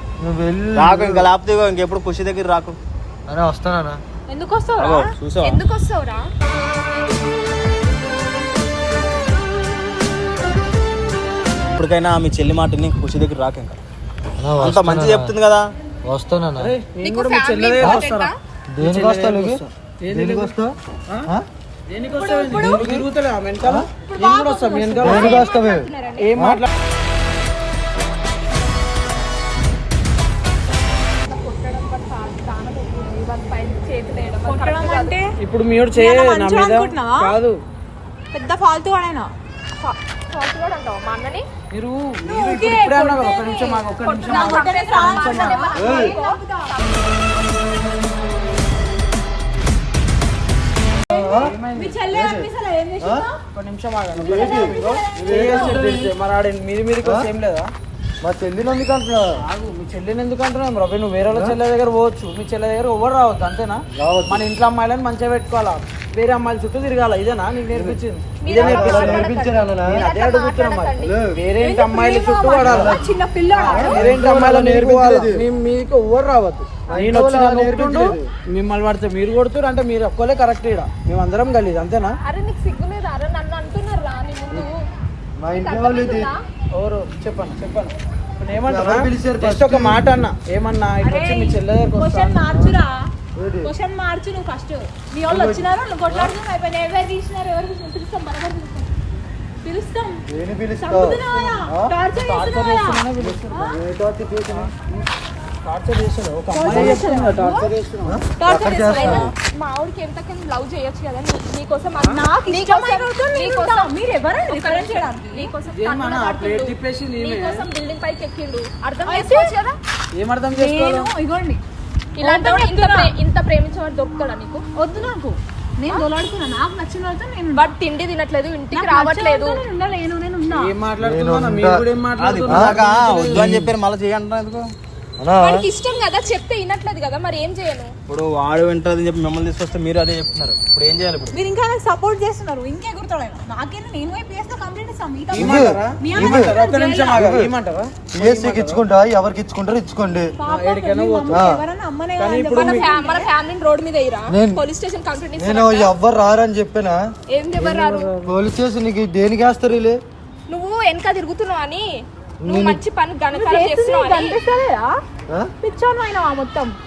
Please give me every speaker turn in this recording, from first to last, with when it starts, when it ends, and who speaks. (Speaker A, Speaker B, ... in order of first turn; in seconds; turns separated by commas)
Speaker A: 0.2-1.3, Speaker B: 0.8-2.8, Speaker A: 3.3-4.0, Speaker C: 4.3-5.1, Speaker B: 4.8-5.6, Speaker D: 5.4-6.2, Speaker B: 11.7-13.8, Speaker A: 14.4-15.3, Speaker B: 14.6-15.6, Speaker A: 16.0-16.7, Speaker E: 16.6-20.5, Speaker D: 17.0-18.3, Speaker A: 17.8-18.0, Speaker A: 18.7-20.7, Speaker E: 21.9-25.4, Speaker C: 22.1-22.8, Speaker A: 22.5-23.1, Speaker C: 24.1-25.3, Speaker D: 24.2-26.3, Speaker A: 25.0-26.6, Speaker E: 26.2-26.7, Speaker D: 31.2-35.1, Speaker C: 34.4-35.3, Speaker E: 35.4-37.6, Speaker C: 35.9-37.3, Speaker C: 38.3-39.3, Speaker D: 39.8-41.4, Speaker E: 41.7-45.6, Speaker D: 42.3-47.1, Speaker C: 44.2-46.8, Speaker A: 45.7-46.1, Speaker A: 51.1-51.5, Speaker C: 51.1-53.4, Speaker E: 51.3-52.0, Speaker A: 52.1-53.2, Speaker E: 53.5-57.7, Speaker A: 54.1-56.1, Speaker C: 54.3-55.8, Speaker A: 58.2-59.3, Speaker E: 59.4-69.3, Speaker A: 61.3-61.5, Speaker A: 63.9-64.4, Speaker D: 68.4-71.1, Speaker A: 68.6-70.0, Speaker E: 69.9-73.0, Speaker A: 71.0-71.3, Speaker C: 71.6-74.1, Speaker A: 72.6-73.0, Speaker E: 73.6-82.2, Speaker A: 73.6-75.4, Speaker A: 76.9-78.2, Speaker D: 82.2-84.8, Speaker A: 85.4-86.3, Speaker D: 85.5-86.4, Speaker E: 86.7-92.7, Speaker A: 88.6-90.2, Speaker C: 91.0-93.0, Speaker A: 92.5-92.8, Speaker A: 93.3-93.7, Speaker C: 93.6-98.9, Speaker A: 95.3-96.3, Speaker C: 99.6-100.2, Speaker A: 100.3-101.9, Speaker C: 100.8-103.7, Speaker E: 102.1-103.5, Speaker A: 103.2-104.7, Speaker E: 104.5-105.0, Speaker E: 105.6-108.2, Speaker C: 106.5-107.7, Speaker A: 106.7-107.0, Speaker A: 108.0-109.3, Speaker C: 108.4-109.3, Speaker D: 109.1-113.9, Speaker C: 112.1-115.5, Speaker D: 114.4-119.7, Speaker E: 115.7-117.7, Speaker C: 119.0-119.5, Speaker E: 120.1-121.1, Speaker C: 120.5-121.6, Speaker D: 122.2-124.6, Speaker C: 122.2-123.1, Speaker C: 124.8-127.7, Speaker D: 127.5-129.6, Speaker C: 128.7-130.7, Speaker E: 130.4-133.5, Speaker A: 131.0-131.8, Speaker B: 132.2-134.7, Speaker A: 132.5-132.8, Speaker A: 133.3-133.7, Speaker A: 135.2-135.6, Speaker D: 135.4-137.9, Speaker B: 138.1-141.3, Speaker C: 141.3-147.3, Speaker E: 145.3-148.8, Speaker A: 145.3-146.6, Speaker A: 147.1-147.5, Speaker A: 148.1-150.3, Speaker C: 150.4-153.3, Speaker E: 150.4-151.5, Speaker A: 151.3-151.6, Speaker E: 152.2-152.9, Speaker D: 152.6-155.9, Speaker A: 154.3-154.6, Speaker A: 155.4-157.0, Speaker D: 157.3-158.1, Speaker E: 157.6-158.3, Speaker A: 158.2-160.0, Speaker D: 160.5-161.8, Speaker A: 162.4-162.8, Speaker D: 162.4-164.4, Speaker C: 163.3-164.9, Speaker C: 165.6-166.8